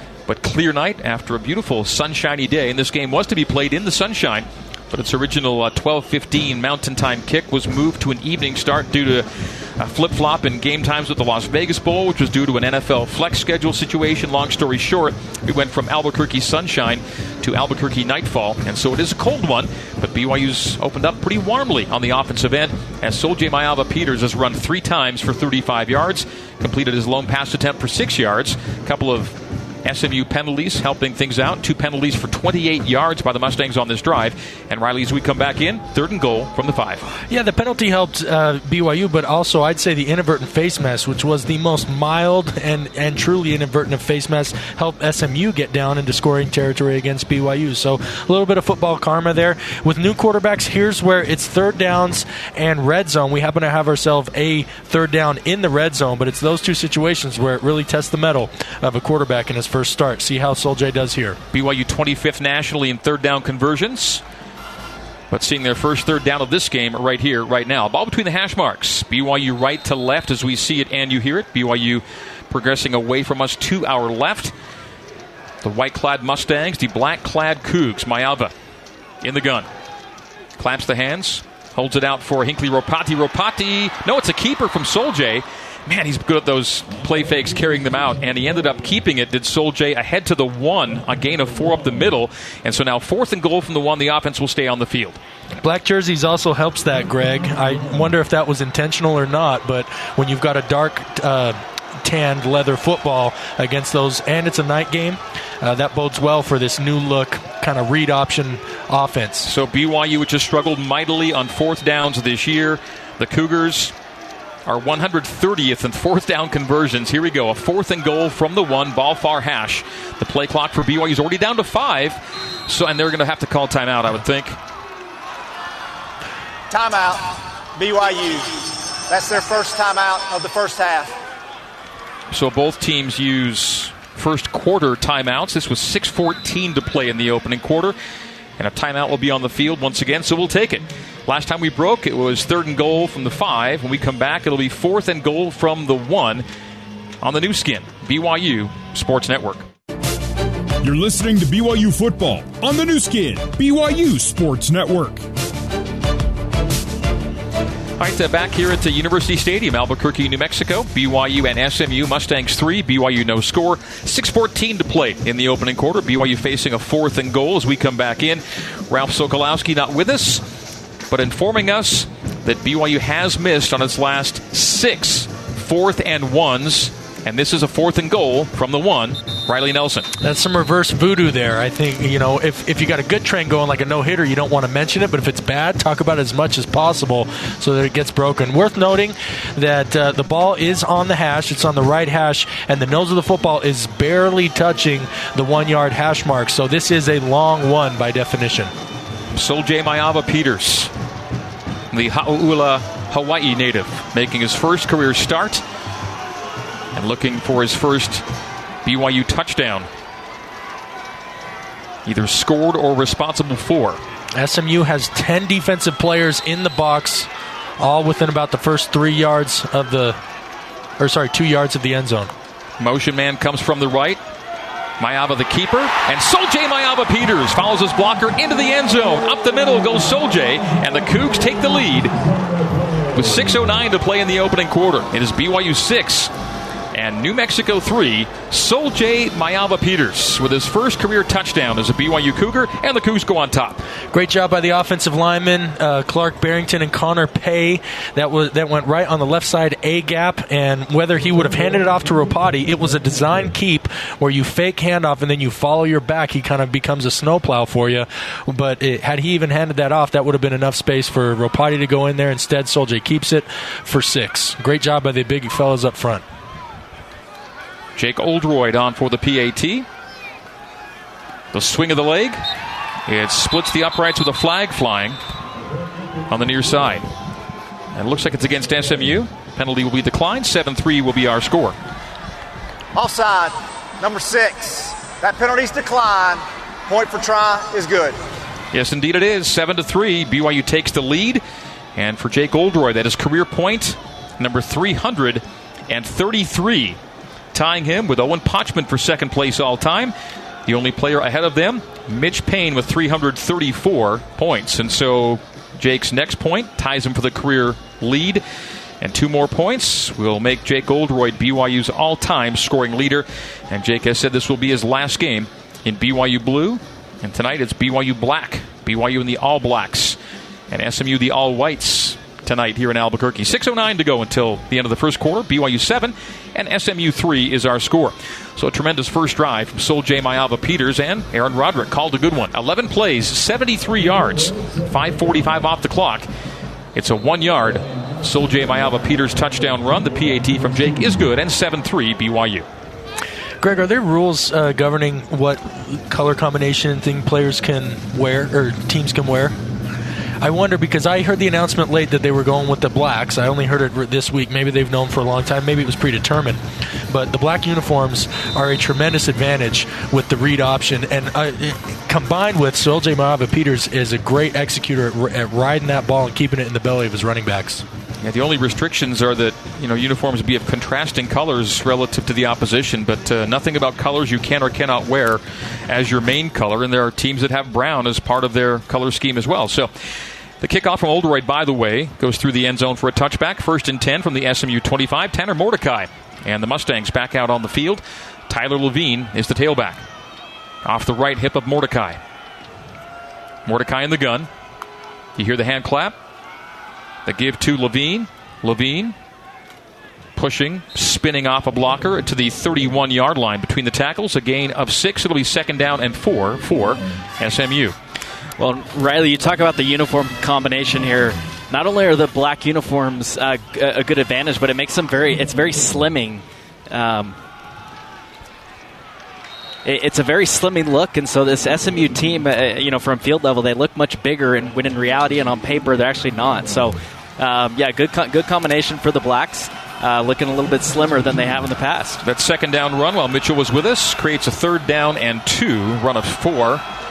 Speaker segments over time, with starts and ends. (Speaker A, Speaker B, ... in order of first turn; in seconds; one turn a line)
Speaker A: 0.3-9.3
Speaker A: 9.8-37.1
Speaker B: 37.3-61.4
Speaker A: 61.5-64.2
Speaker A: 65.3-74.5
Speaker A: 75.6-78.5
Speaker A: 79.2-79.7
Speaker A: 80.6-95.2
Speaker B: 95.6-109.5
Speaker A: 109.5-113.9
Speaker A: 114.7-124.6
Speaker C: 126.7-131.2
Speaker A: 132.3-138.0
Speaker A: 138.6-146.4
Speaker A: 147.2-149.7
Speaker D: 150.8-155.2
Speaker A: 158.0-170.4
Speaker A: 171.1-180.1
Speaker B: 180.2-198.7
Speaker A: 199.4-200.9
Speaker A: 201.9-205.6
Speaker A: 206.9-208.2
Speaker A: 208.8-209.9
Speaker A: 212.1-214.0
Speaker B: 214.4-217.3
Speaker B: 217.8-220.2
Speaker B: 221.0-222.3
Speaker A: 222.8-224.2
Speaker A: 225.0-232.2
Speaker A: 233.1-236.3
Speaker A: 236.9-243.8
Speaker B: 244.1-266.2
Speaker A: 268.0-269.9
Speaker A: 271.5-272.4
Speaker A: 273.1-275.2
Speaker A: 276.3-277.1
Speaker A: 277.9-281.8
Speaker C: 282.9-288.2
Speaker A: 288.7-291.4
Speaker A: 292.0-297.0
Speaker A: 297.5-300.1
Speaker A: 300.7-308.4
Speaker A: 309.0-320.2
Speaker A: 320.7-336.3
Speaker A: 336.9-342.7
Speaker B: 343.6-349.6
Speaker B: 350.4-367.8
Speaker A: 368.2-379.9
Speaker A: 380.6-390.0
Speaker A: 390.8-392.2
Speaker A: 393.7-394.5
Speaker A: 395.4-396.1
Speaker A: 397.3-399.1
Speaker A: 400.4-408.0
Speaker E: 408.6-417.4
Speaker E: 419.9-432.2
Speaker A: 432.2-436.8